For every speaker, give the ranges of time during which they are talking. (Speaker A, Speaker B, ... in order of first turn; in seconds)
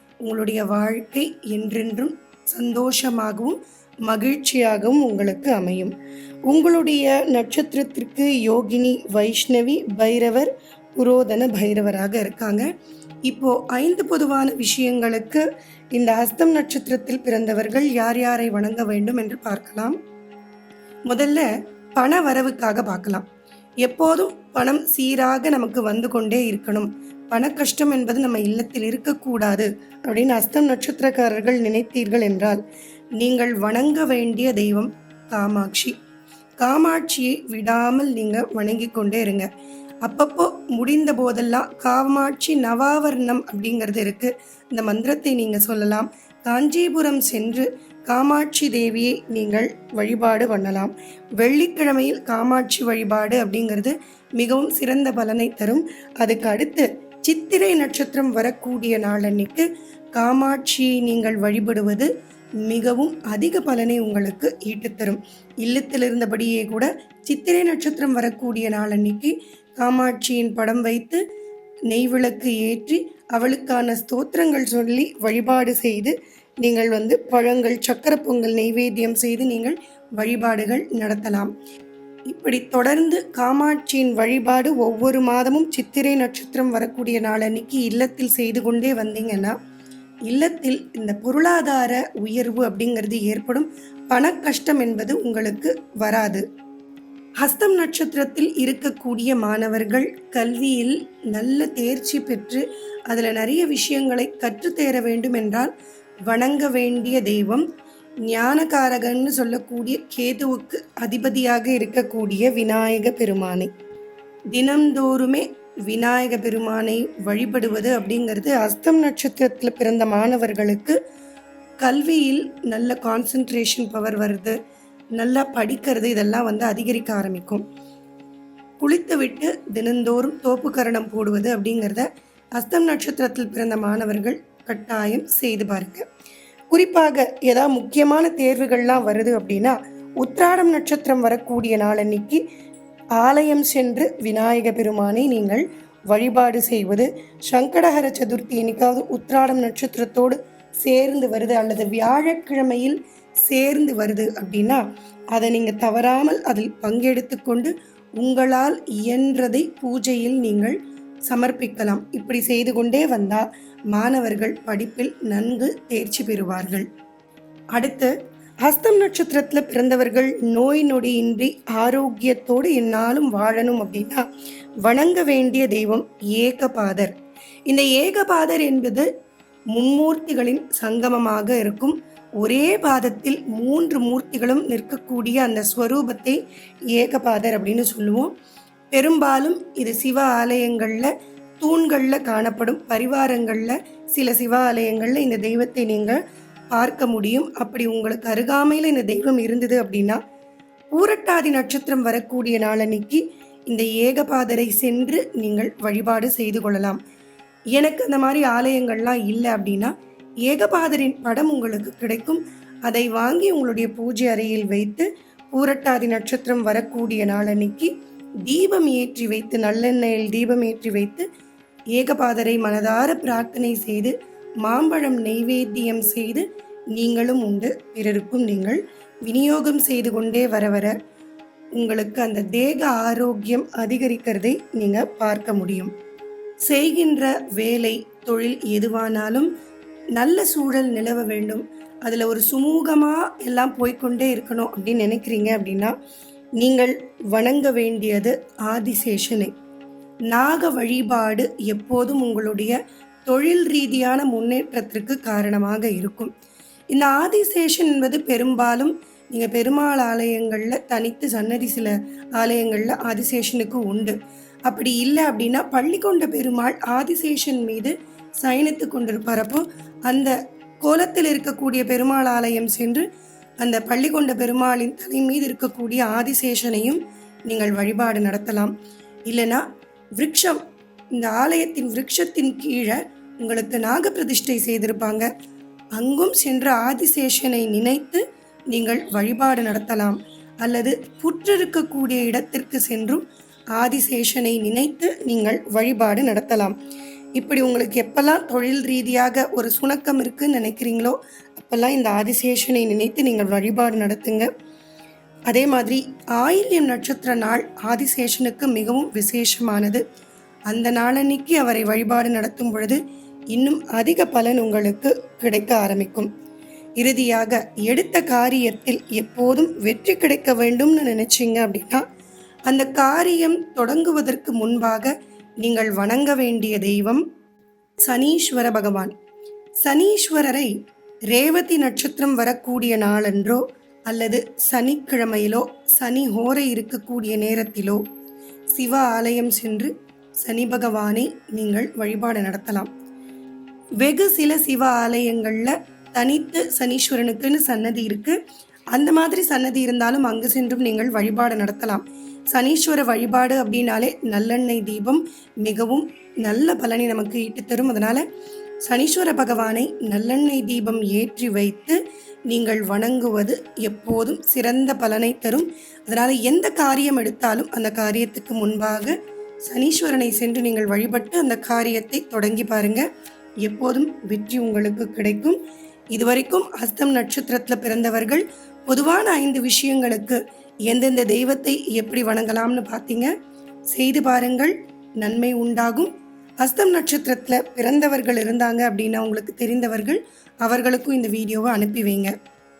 Speaker A: 0.2-5.9, 6.5-12.7, 13.3-20.0, 21.1-23.2, 23.8-32.6, 33.2-36.0, 36.6-39.5, 40.0-62.1, 62.6-71.2, 71.9-81.5, 82.3-89.6, 90.3-96.4, 97.4-105.7, 106.3-107.6, 108.3-113.7, 114.5-121.0, 121.8-124.6, 125.2-127.6, 128.8-132.1, 132.6-136.1, 136.7-142.4, 143.2-154.8, 155.3-160.8, 161.3-166.9, 167.7-168.1, 168.6-174.2, 174.8-177.1, 177.7-179.1, 179.7-186.4, 186.9-188.3, 188.9-196.2, 196.7-200.2, 200.9-207.0, 207.8-209.9, 210.5-217.9, 218.4-221.3, 221.9-230.9, 231.8-235.9, 236.7-239.5, 240.2-245.9, 246.6-249.5, 250.3-252.8, 253.3-256.3, 256.9-264.1, 264.7-273.1, 273.6-278.7, 279.3-279.6, 280.2-280.6, 281.1-285.3, 286.0-293.2, 293.8-296.8, 297.4-304.5, 305.5-310.0, 310.7-313.0, 313.5-316.3, 317.0-322.0, 322.7-327.2, 328.0-329.1, 329.8-330.7, 331.3-338.0, 338.7-339.9, 340.4-342.9, 344.0-348.4, 348.9-358.2, 358.9-362.0, 362.5-369.1, 369.7-373.1, 373.6-375.6, 376.1-383.3, 383.9-386.1, 386.6-392.3